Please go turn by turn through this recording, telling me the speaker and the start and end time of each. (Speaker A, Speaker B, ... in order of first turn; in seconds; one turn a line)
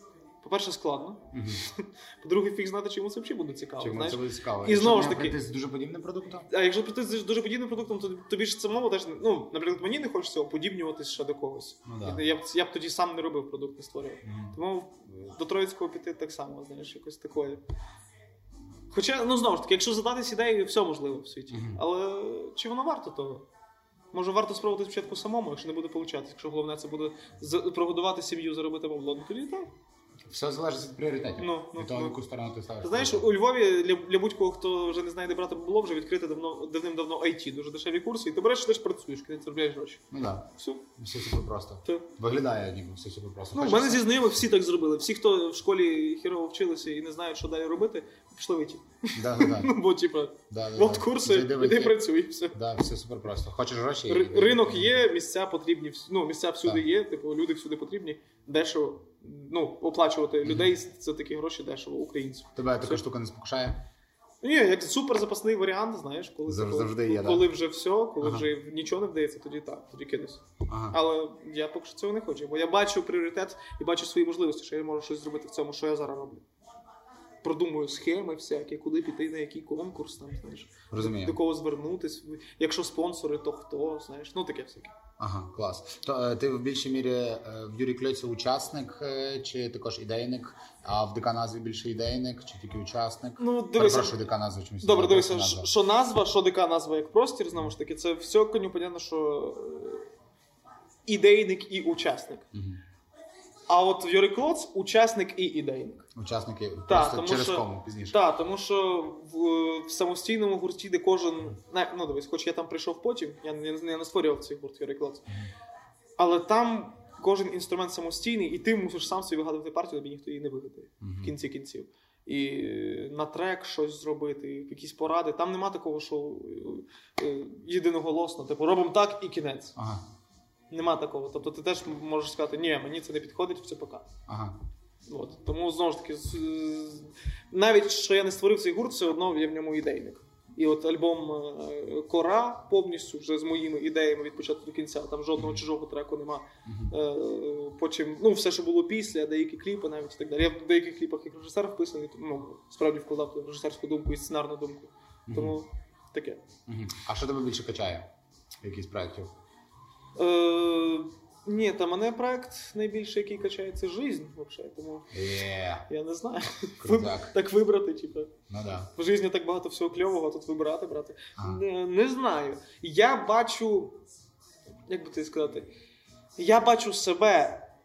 Speaker A: 0.4-5.4
Speaker B: 1.3-1.6
Speaker B: 3.8-6.5
Speaker A: 6.5-17.6
Speaker B: 11.8-12.2
Speaker B: 14.2-14.6
Speaker A: 18.9-23.4
Speaker B: 21.5-21.8
Speaker A: 24.1-29.7
Speaker B: 30.2-33.3
Speaker A: 31.4-32.2
Speaker A: 32.8-40.0
Speaker B: 40.1-44.1
Speaker A: 40.6-40.9
Speaker A: 43.5-52.6
Speaker B: 49.1-49.7
Speaker B: 50.5-55.0
Speaker A: 54.1-63.0
Speaker B: 60.4-60.7
Speaker B: 62.5-63.8
Speaker A: 64.4-76.4
Speaker B: 66.5-67.5
Speaker B: 68.2-68.5
Speaker B: 70.7-71.0
Speaker A: 77.4-84.9
Speaker B: 80.9-81.4
Speaker B: 85.2-95.7
Speaker A: 93.4-94.2
Speaker A: 94.8-100.1
Speaker A: 101.0-102.5
Speaker B: 102.5-102.8
Speaker A: 103.7-106.1
Speaker B: 106.1-108.2
Speaker A: 106.9-115.3
Speaker A: 116.2-129.8
Speaker B: 121.0-121.3
Speaker B: 129.8-130.0
Speaker A: 130.7-134.1
Speaker B: 134.3-134.6
Speaker A: 135.1-156.4
Speaker B: 146.7-146.9
Speaker B: 155.3-155.6
Speaker B: 156.7-159.3
Speaker A: 160.2-165.1
Speaker B: 165.1-165.8
Speaker A: 165.9-168.3
Speaker B: 166.8-167.3
Speaker B: 168.5-168.9
Speaker A: 168.9-174.0
Speaker A: 174.9-175.7
Speaker A: 176.4-177.7